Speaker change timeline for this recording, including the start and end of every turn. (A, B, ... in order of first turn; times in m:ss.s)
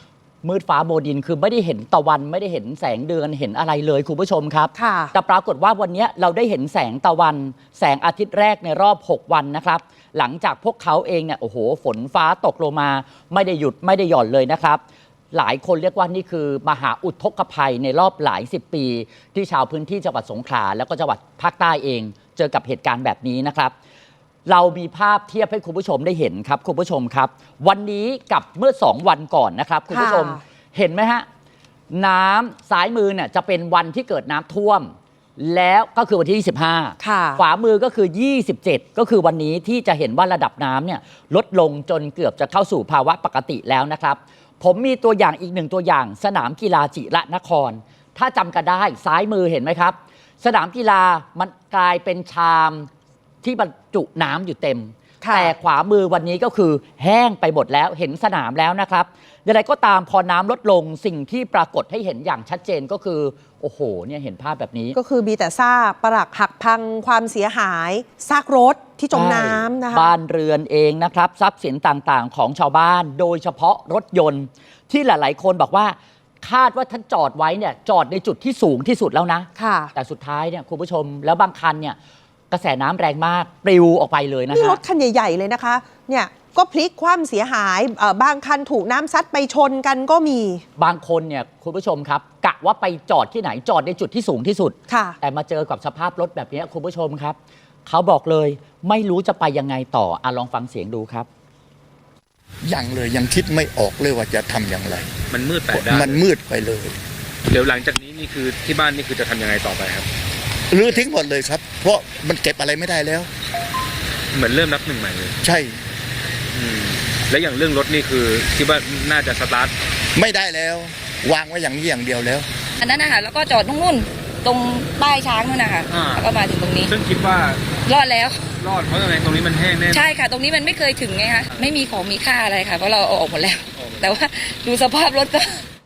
0:00.4-0:14.8 A
0:04.8-0:05.1 B
0:15.3-0:23.7 A
0:24.4-0:31.2 A
0:29.9-0:30.4 B
0:31.9-0:52.9 A
0:37.0-0:37.4 B
0:53.4-1:05.0 A
0:55.2-0:55.5 B
1:04.9-1:10.1 B
1:09.1-1:22.0 A
1:19.6-1:19.9 B
1:22.5-1:24.8 A
1:24.5-1:30.6 B
1:30.8-1:37.4 A
1:34.9-1:35.2 B
1:37.9-1:41.3 A
1:42.6-1:45.1 C
1:45.3-1:46.2 D
1:45.7-1:47.0 C
1:47.5-1:50.1 D
1:50.7-1:53.3 C
1:54.3-1:55.3 D
1:55.4-1:55.8 C
1:56.5-1:59.7 D
2:00.1-2:02.4 C
2:02.8-2:07.0 E
2:05.9-2:06.2 D
2:06.9-2:07.8 D
2:07.8-2:08.6 E
2:08.6-2:10.2 D
2:09.9-2:15.6 E
2:11.5-2:11.8 D
2:13.8-2:14.1 D